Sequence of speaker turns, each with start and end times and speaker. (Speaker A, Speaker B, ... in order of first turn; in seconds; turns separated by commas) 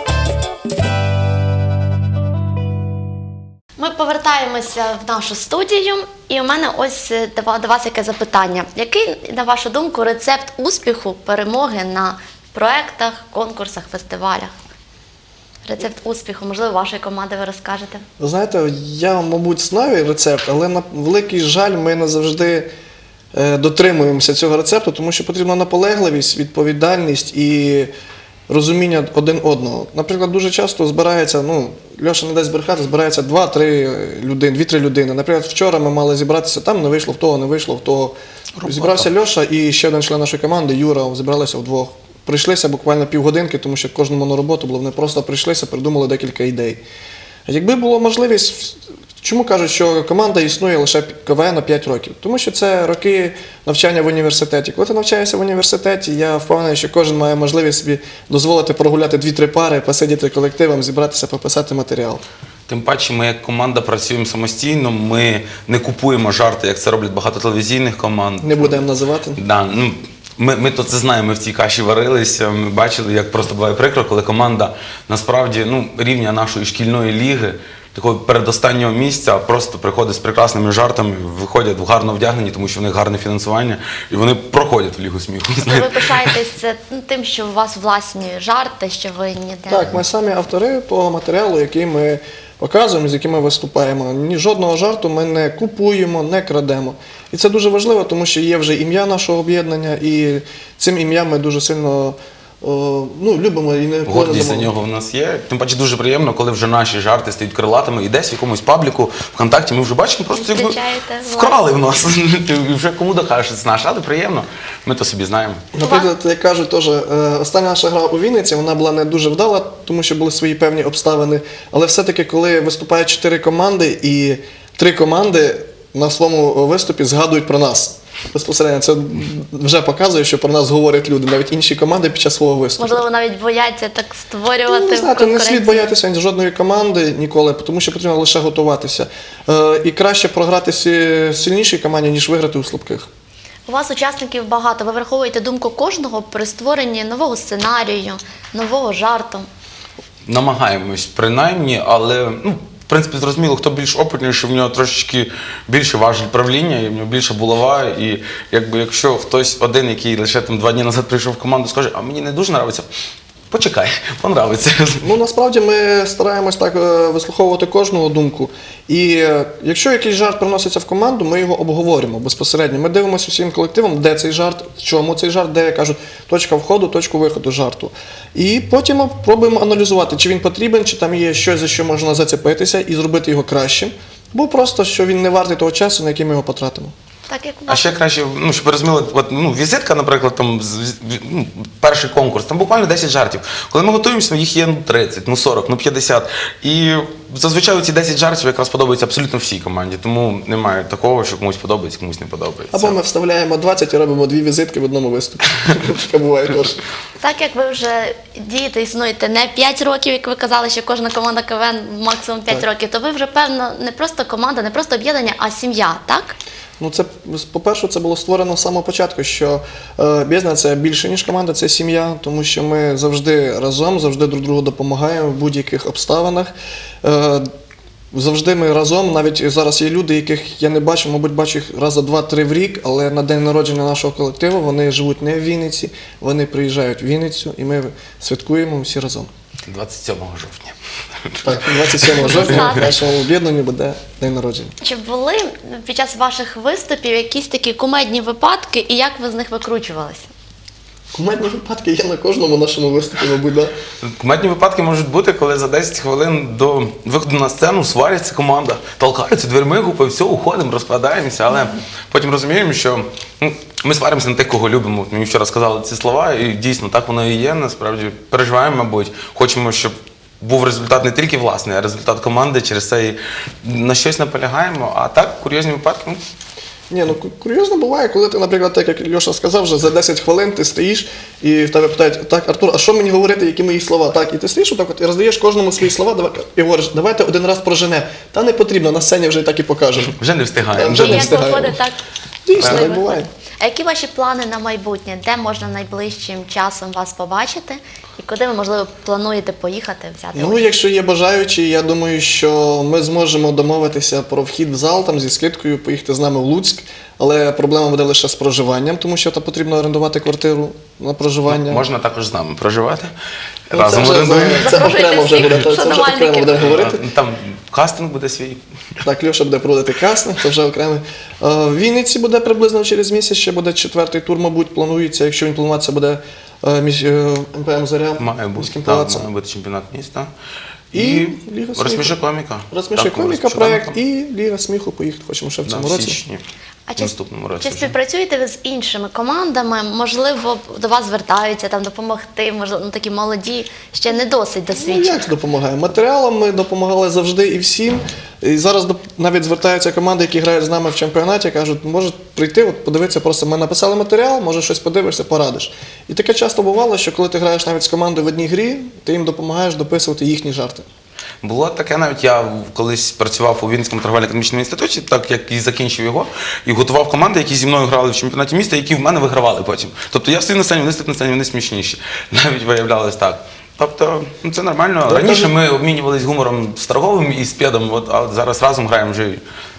Speaker A: 3.8-14.5, Speaker A: 15.6-18.0, Speaker B: 18.2-22.7, Speaker B: 23.3-27.9, Speaker B: 28.5-46.8, Speaker C: 38.6-39.1, Speaker B: 47.5-62.2, Speaker C: 62.7-68.8, Speaker B: 68.4-69.4, Speaker C: 69.4-86.3, Speaker A: 85.7-89.9, Speaker B: 89.7-104.7, Speaker C: 104.1-115.6, Speaker A: 110.3-111.6, Speaker B: 115.7-133.0, Speaker A: 115.8-116.1, Speaker A: 132.8-135.9, Speaker B: 134.7-143.1, Speaker A: 143.7-149.5, Speaker C: 150.2-162.8, Speaker C: 163.5-165.1, Speaker B: 165.0-186.9, Speaker A: 187.3-187.9, Speaker C: 187.7-202.9, Speaker B: 202.7-206.8, Speaker A: 207.2-216.3, Speaker B: 216.8-227.5, Speaker B: 228.1-239.3, Speaker C: 239.7-242.7, Speaker B: 241.4-244.7, Speaker A: 242.2-243.0, Speaker A: 244.8-250.3, Speaker B: 251.1-253.7, Speaker C: 254.0-276.2, Speaker B: 276.9-290.1, Speaker C: 290.1-291.4, Speaker B: 290.8-291.8, Speaker A: 290.8-291.9, Speaker B: 292.4-293.3, Speaker C: 292.6-292.9, Speaker A: 292.6-300.6, Speaker B: 300.3-311.8, Speaker C: 311.5-313.1, Speaker C: 313.7-314.9, Speaker B: 313.7-317.0, Speaker A: 314.5-316.7, Speaker C: 316.6-318.6, Speaker B: 319.0-329.2, Speaker C: 328.2-330.3, Speaker B: 330.9-332.1, Speaker C: 330.9-333.9, Speaker B: 332.7-336.2, Speaker C: 335.7-336.4, Speaker A: 336.9-345.2, Speaker C: 337.0-337.9, Speaker B: 344.7-360.9, Speaker C: 361.4-379.4, Speaker B: 375.1-375.5